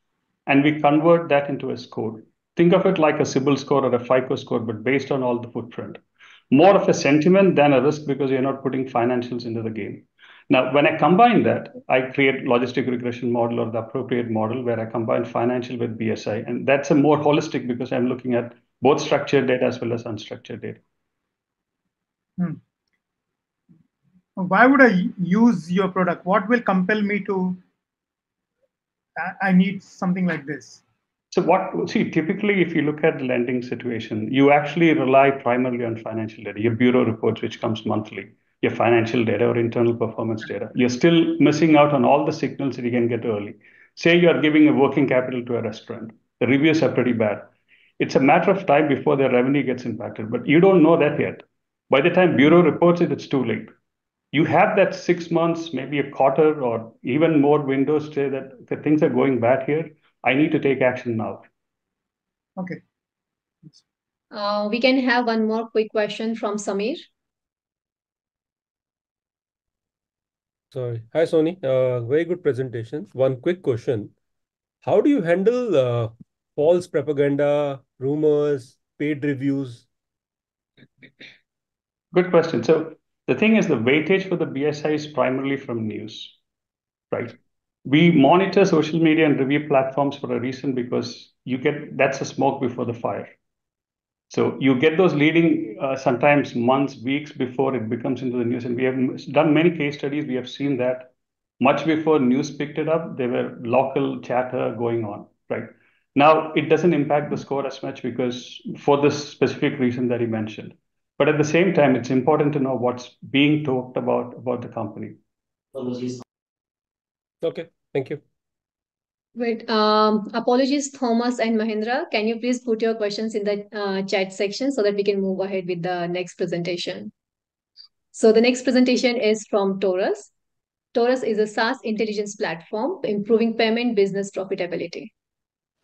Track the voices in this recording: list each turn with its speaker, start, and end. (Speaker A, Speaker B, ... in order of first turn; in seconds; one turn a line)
Speaker A: 0.5-20.8
Speaker B: 24.4-27.6
Speaker B: 29.2-30.8
Speaker A: 31.3-53.7
Speaker A: 54.3-61.5
Speaker C: 64.3-67.1
Speaker D: 70.7-74.1
Speaker D: 74.8-79.8
Speaker A: 82.1-86.4
Speaker A: 87.1-93.4
Speaker A: 94.3-115.2
Speaker D: 117.4-118.2
Speaker C: 119.4-127.1
Speaker C: 128.1-130.3
Speaker C: 130.9-135.1